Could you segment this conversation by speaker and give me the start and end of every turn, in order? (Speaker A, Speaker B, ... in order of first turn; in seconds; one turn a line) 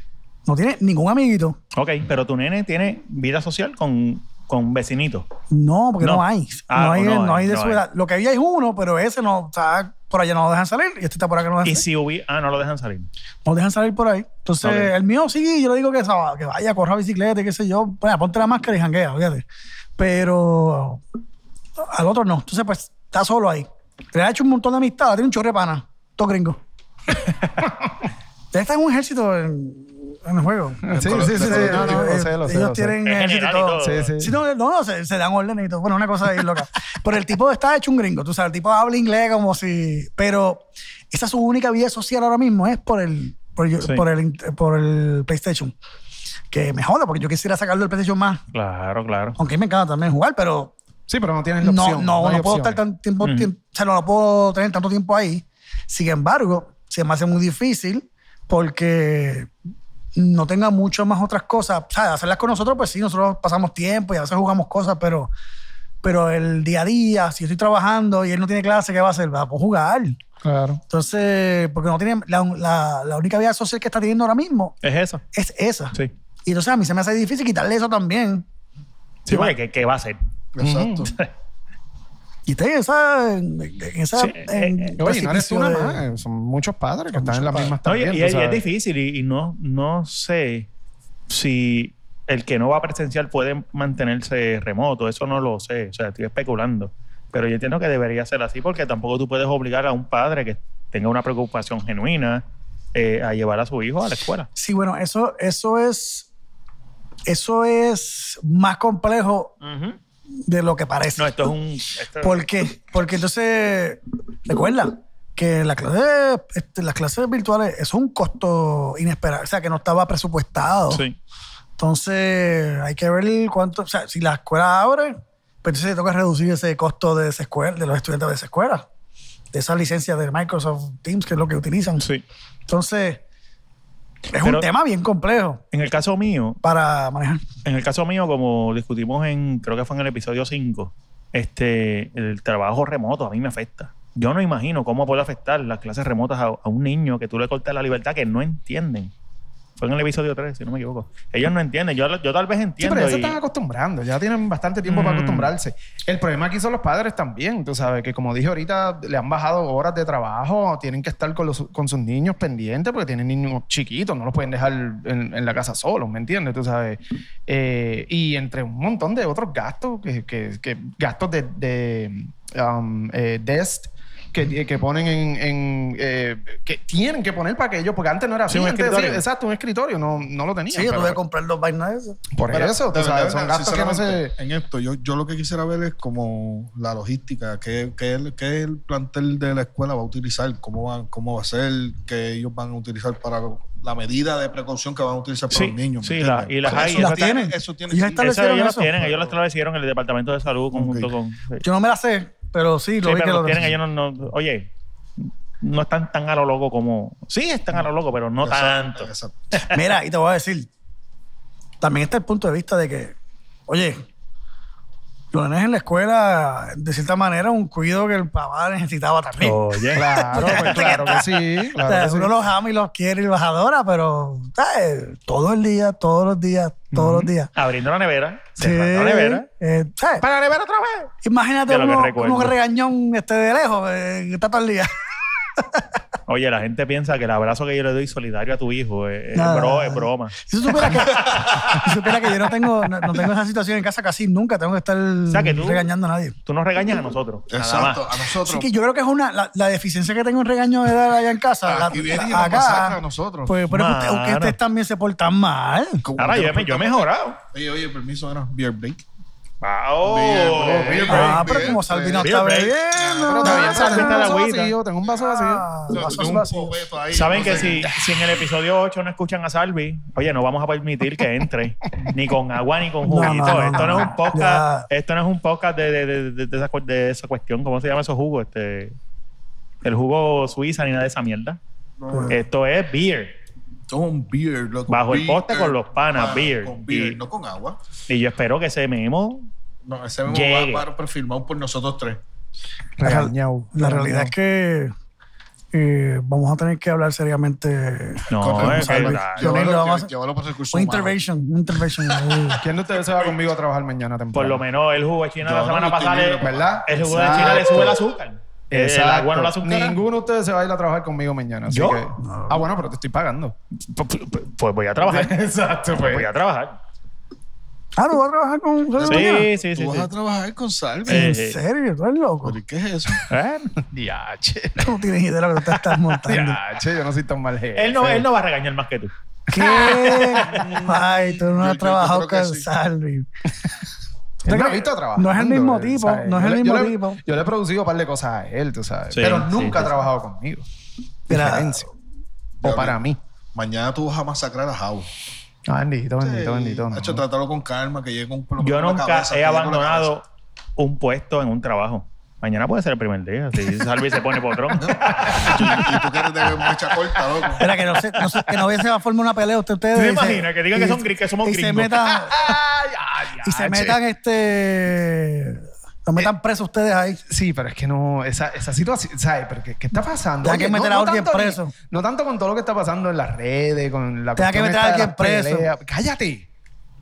Speaker A: 0.5-1.6
Speaker B: 1.7-5.3
Speaker A: 5.5-11.8
Speaker B: 6.0-7.8
Speaker B: 11.6-13.1
Speaker A: 13.4-19.4
Speaker B: 14.6-14.9
Speaker A: 20.0-21.0
Speaker A: 21.8-26.6
Speaker A: 28.5-45.7
Speaker C: 30.8-33.0
Speaker D: 30.9-32.1
Speaker B: 33.0-34.1
Speaker C: 33.8-34.3
Speaker A: 46.5-48.4
Speaker B: 48.5-49.4
Speaker A: 49.4-50.7
Speaker C: 51.1-52.8
Speaker A: 51.6-59.5
Speaker B: 53.2-53.5
Speaker A: 60.1-65.3
Speaker A: 66.0-70.2
Speaker C: 70.4-70.8
Speaker A: 70.9-74.8
Speaker B: 74.8-75.2
Speaker A: 75.3-75.9
Speaker A: 76.5-78.4
Speaker B: 79.3-80.2
Speaker D: 80.5-81.1
Speaker C: 80.6-81.1
Speaker A: 82.5-86.0
Speaker B: 84.2-84.9
Speaker C: 85.0-88.6
Speaker A: 87.1-87.8
Speaker B: 87.8-90.7
Speaker B: 91.3-102.4
Speaker B: 102.9-104.5
Speaker A: 104.5-106.3
Speaker A: 107.3-109.5
Speaker B: 109.6-110.0
Speaker A: 110.5-111.5
Speaker B: 111.2-112.5
Speaker A: 112.2-121.0
Speaker B: 120.9-121.2
Speaker A: 121.8-128.8
Speaker A: 129.5-132.1
Speaker A: 132.7-133.2
Speaker A: 134.3-135.6
Speaker B: 134.4-134.7
Speaker B: 135.7-136.6
Speaker A: 136.6-137.4
Speaker B: 137.6-149.1
Speaker B: 149.8-153.4
Speaker C: 152.8-181.2
Speaker B: 154.8-155.5
Speaker B: 178.5-179.2
Speaker A: 180.7-182.2
Speaker C: 182.3-184.3
Speaker D: 182.5-198.3
Speaker B: 195.5-197.2
Speaker A: 196.7-198.9
Speaker B: 198.2-201.6
Speaker D: 198.9-199.3
Speaker D: 200.7-201.1
Speaker A: 201.6-203.7
Speaker B: 203.0-204.6
Speaker B: 205.2-209.8
Speaker D: 208.4-209.4
Speaker A: 209.7-210.7
Speaker A: 211.8-213.1
Speaker A: 213.7-214.0
Speaker A: 215.3-227.5
Speaker B: 219.4-221.2
Speaker C: 219.9-222.3
Speaker B: 226.9-229.4
Speaker A: 228.6-230.2
Speaker B: 230.2-231.1
Speaker A: 231.2-234.9
Speaker B: 231.7-232.5
Speaker A: 235.6-235.9
Speaker B: 236.3-240.3
Speaker A: 239.3-246.3
Speaker D: 240.9-241.8
Speaker B: 245.3-245.8
Speaker B: 246.4-248.0
Speaker D: 247.5-248.7
Speaker A: 248.4-256.0
Speaker D: 251.7-253.5
Speaker B: 253.7-254.6
Speaker D: 256.0-259.0
Speaker B: 256.2-257.4
Speaker B: 259.6-261.5
Speaker D: 260.0-263.6
Speaker C: 260.5-261.6
Speaker A: 261.1-264.3
Speaker B: 262.2-262.8
Speaker C: 263.2-266.7
Speaker B: 263.4-264.7
Speaker A: 265.2-266.6
Speaker D: 265.9-268.0
Speaker B: 267.1-278.9
Speaker C: 267.2-268.0
Speaker A: 273.0-274.9
Speaker B: 279.8-281.6
Speaker D: 282.0-282.4
Speaker B: 282.3-283.3
Speaker D: 283.9-287.8
Speaker B: 284.9-287.2
Speaker B: 288.1-289.5
Speaker D: 289.9-292.2
Speaker B: 290.3-290.8
Speaker C: 293.0-294.3
Speaker A: 293.0-294.9
Speaker A: 295.7-300.1
Speaker B: 298.3-299.7
Speaker D: 298.4-301.1
Speaker A: 300.7-302.6
Speaker D: 302.1-302.6
Speaker C: 302.6-304.6
Speaker B: 304.3-310.0
Speaker D: 305.4-308.0
Speaker C: 306.4-308.0
Speaker C: 308.7-313.5
Speaker B: 311.7-312.0
Speaker B: 313.8-315.3
Speaker C: 315.0-316.3
Speaker B: 315.9-316.8
Speaker A: 318.0-319.5
Speaker D: 319.0-321.3
Speaker B: 319.1-320.1
Speaker B: 321.1-321.6
Speaker A: 321.1-322.6
Speaker D: 322.4-323.2
Speaker B: 323.3-323.7
Speaker C: 323.8-324.9
Speaker A: 324.8-326.6
Speaker C: 326.1-328.2
Speaker B: 327.8-329.1
Speaker A: 329.5-333.3
Speaker C: 329.5-330.9
Speaker D: 330.9-332.7
Speaker C: 334.4-340.6
Speaker A: 334.5-337.2
Speaker B: 339.1-340.0
Speaker C: 341.3-341.9
Speaker A: 341.3-341.9
Speaker D: 342.6-343.0
Speaker C: 342.6-343.2
Speaker D: 343.5-345.1
Speaker C: 345.7-347.2
Speaker D: 346.2-350.1
Speaker B: 348.6-350.2
Speaker B: 350.8-355.5
Speaker D: 354.8-357.7
Speaker C: 354.9-356.2
Speaker C: 357.2-357.5
Speaker A: 357.6-362.5
Speaker B: 359.9-362.1
Speaker C: 362.1-364.0
Speaker A: 363.4-367.2
Speaker C: 367.3-376.4
Speaker A: 370.4-371.7
Speaker A: 374.4-375.7